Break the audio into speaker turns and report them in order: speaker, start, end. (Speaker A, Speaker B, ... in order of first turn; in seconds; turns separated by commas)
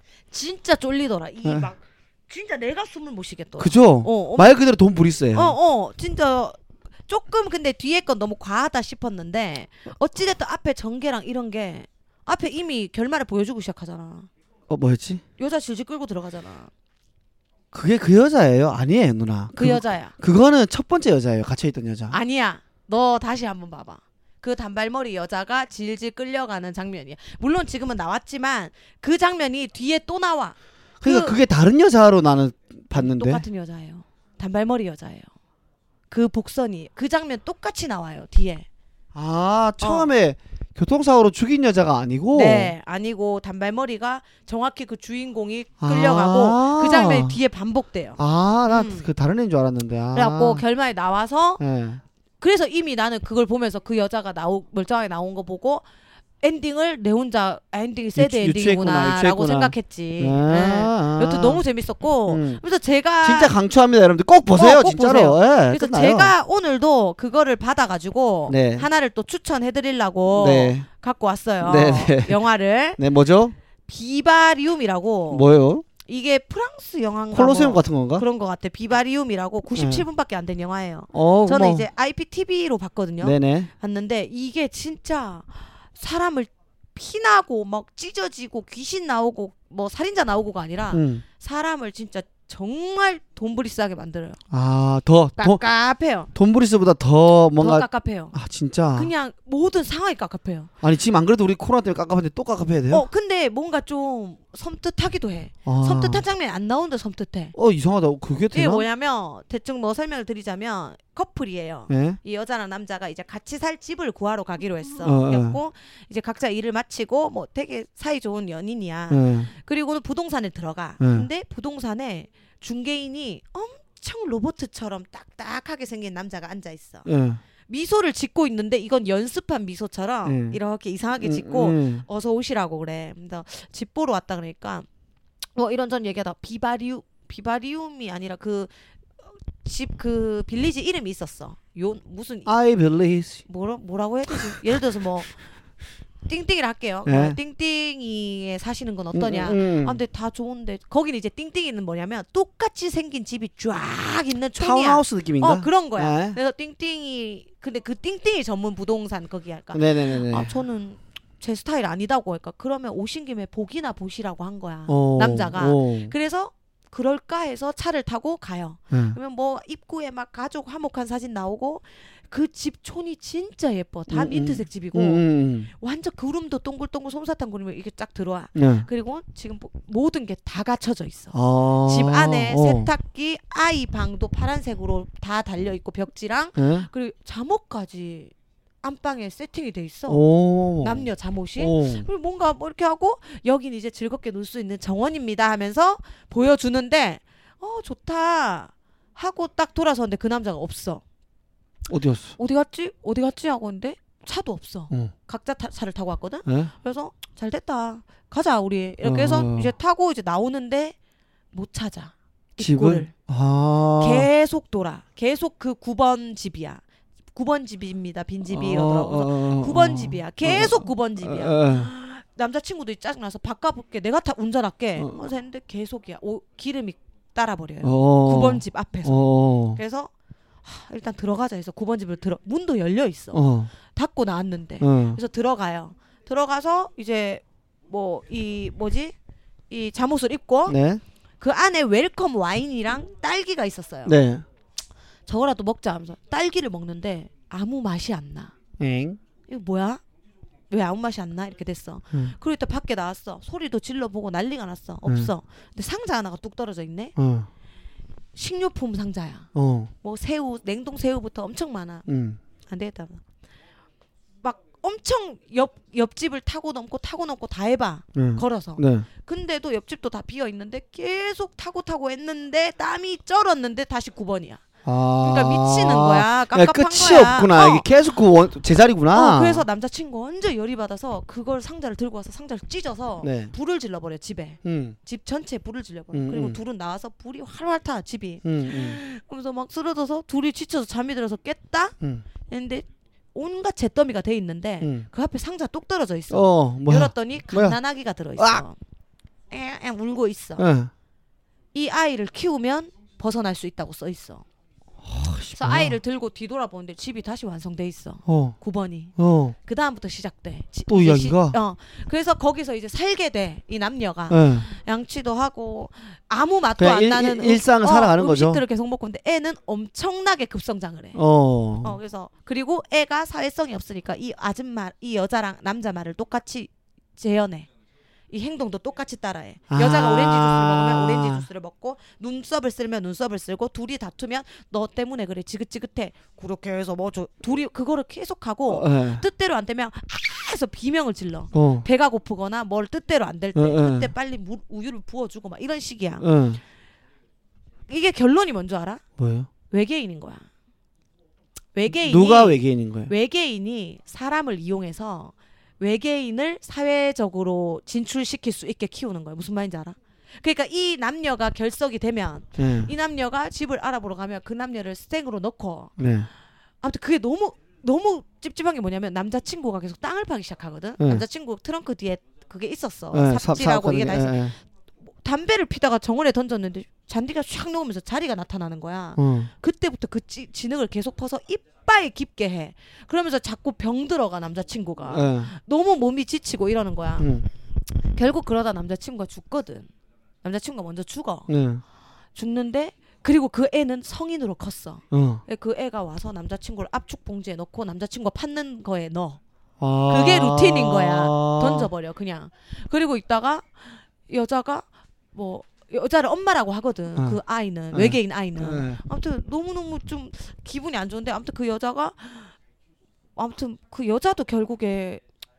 Speaker A: 0.3-4.6, Speaker B: 3.6-5.6, Speaker A: 5.3-14.3, Speaker B: 14.7-15.2, Speaker A: 15.4-16.7, Speaker B: 17.7-22.2, Speaker A: 19.6-20.1, Speaker A: 22.1-31.4, Speaker B: 31.0-33.4, Speaker A: 32.9-35.3, Speaker A: 36.1-38.7, Speaker B: 39.1-42.8, Speaker A: 39.8-40.1, Speaker A: 42.3-49.1, Speaker B: 45.8-47.4, Speaker B: 48.2-50.6, Speaker A: 50.1-51.6, Speaker B: 51.6-52.0, Speaker A: 52.4-55.9, Speaker A: 56.4-63.5, Speaker B: 58.2-61.6, Speaker B: 62.3-62.6, Speaker B: 63.2-66.3, Speaker A: 64.5-73.0, Speaker B: 68.5-68.9, Speaker B: 70.3-70.9, Speaker B: 71.6-72.4, Speaker B: 73.0-73.6, Speaker A: 73.9-75.5, Speaker B: 75.3-75.8, Speaker A: 76.0-94.4, Speaker B: 77.3-78.3, Speaker B: 79.8-80.0, Speaker B: 81.1-81.9, Speaker B: 83.2-83.7, Speaker B: 90.9-91.2, Speaker B: 94.5-95.6, Speaker A: 95.4-96.3, Speaker B: 96.3-99.1, Speaker A: 97.6-98.4, Speaker A: 98.9-100.7, Speaker B: 100.8-103.1, Speaker A: 102.9-107.5, Speaker B: 105.7-106.2, Speaker B: 107.5-108.9, Speaker A: 108.5-127.1, Speaker B: 111.9-112.2, Speaker B: 115.0-115.6, Speaker B: 119.1-119.5, Speaker B: 121.0-121.3, Speaker B: 127.1-127.4, Speaker A: 127.7-134.9, Speaker B: 130.3-130.6, Speaker B: 131.2-132.1, Speaker A: 135.6-138.7, Speaker A: 139.6-142.5, Speaker B: 142.5-143.4, Speaker A: 143.5-145.4, Speaker A: 146.3-181.3, Speaker B: 147.1-147.4, Speaker B: 149.1-150.0, Speaker B: 154.6-156.4, Speaker B: 159.7-160.6, Speaker B: 164.9-166.1, Speaker B: 168.9-169.2, Speaker B: 174.1-175.7, Speaker B: 178.6-178.9, Speaker B: 181.3-182.9, Speaker A: 181.8-190.2, Speaker B: 186.6-186.9, Speaker B: 190.1-192.1, Speaker A: 190.8-201.0, Speaker B: 201.9-202.3, Speaker A: 202.4-210.9, Speaker B: 206.5-206.7, Speaker B: 209.0-209.7, Speaker A: 211.5-213.1, Speaker B: 212.6-214.3, Speaker A: 214.0-216.8, Speaker A: 217.3-229.2, Speaker B: 218.4-221.9, Speaker B: 227.8-229.8, Speaker A: 229.7-230.1, Speaker A: 230.6-239.2, Speaker B: 233.3-233.7, Speaker B: 234.8-235.2, Speaker A: 239.7-240.8, Speaker B: 240.7-241.0, Speaker A: 241.4-244.2, Speaker B: 244.1-244.4, Speaker A: 245.3-248.5, Speaker B: 248.8-249.2, Speaker A: 249.5-250.0, Speaker A: 250.7-257.1, Speaker B: 255.1-255.3, Speaker B: 257.2-257.5, Speaker A: 258.4-259.5, Speaker B: 259.5-259.9, Speaker A: 260.0-262.1, Speaker B: 262.1-262.4, Speaker A: 262.7-263.2, Speaker A: 264.4-274.7, Speaker B: 268.1-269.1, Speaker B: 274.8-279.7, Speaker A: 275.2-277.9, Speaker A: 279.1-298.8, Speaker B: 283.2-283.5, Speaker B: 284.6-285.0, Speaker B: 286.1-286.6, Speaker B: 288.4-289.0, Speaker B: 294.8-295.1, Speaker B: 296.3-297.8, Speaker B: 298.4-298.6, Speaker A: 299.5-300.6, Speaker B: 300.6-300.9, Speaker A: 301.7-304.4, Speaker B: 305.0-306.0, Speaker A: 305.6-321.2, Speaker B: 308.3-308.6, Speaker B: 309.2-309.6, Speaker B: 310.9-311.6, Speaker B: 314.3-314.7, Speaker B: 316.8-318.6, Speaker B: 321.1-322.0, Speaker A: 321.8-327.7, Speaker A: 328.3-346.3, Speaker B: 329.7-331.5, Speaker B: 338.7-339.2, Speaker B: 341.5-341.9, Speaker B: 343.6-344.1, Speaker B: 346.2-346.6, Speaker A: 347.9-349.0, Speaker B: 349.2-349.5, Speaker A: 349.7-350.5, Speaker A: 351.8-365.9, Speaker B: 351.9-353.1, Speaker B: 362.6-362.9, Speaker B: 366.0-366.3, Speaker A: 366.8-387.3, Speaker B: 371.0-371.2, Speaker B: 373.1-374.6, Speaker B: 379.2-379.5, Speaker B: 385.1-385.5, Speaker B: 387.2-387.5, Speaker A: 387.9-389.9, Speaker A: 390.4-391.5, Speaker B: 391.5-391.8, Speaker A: 392.4-399.4, Speaker B: 395.1-395.4, Speaker B: 399.8-401.9, Speaker A: 400.1-412.5, Speaker B: 407.9-409.0, Speaker A: 413.4-415.2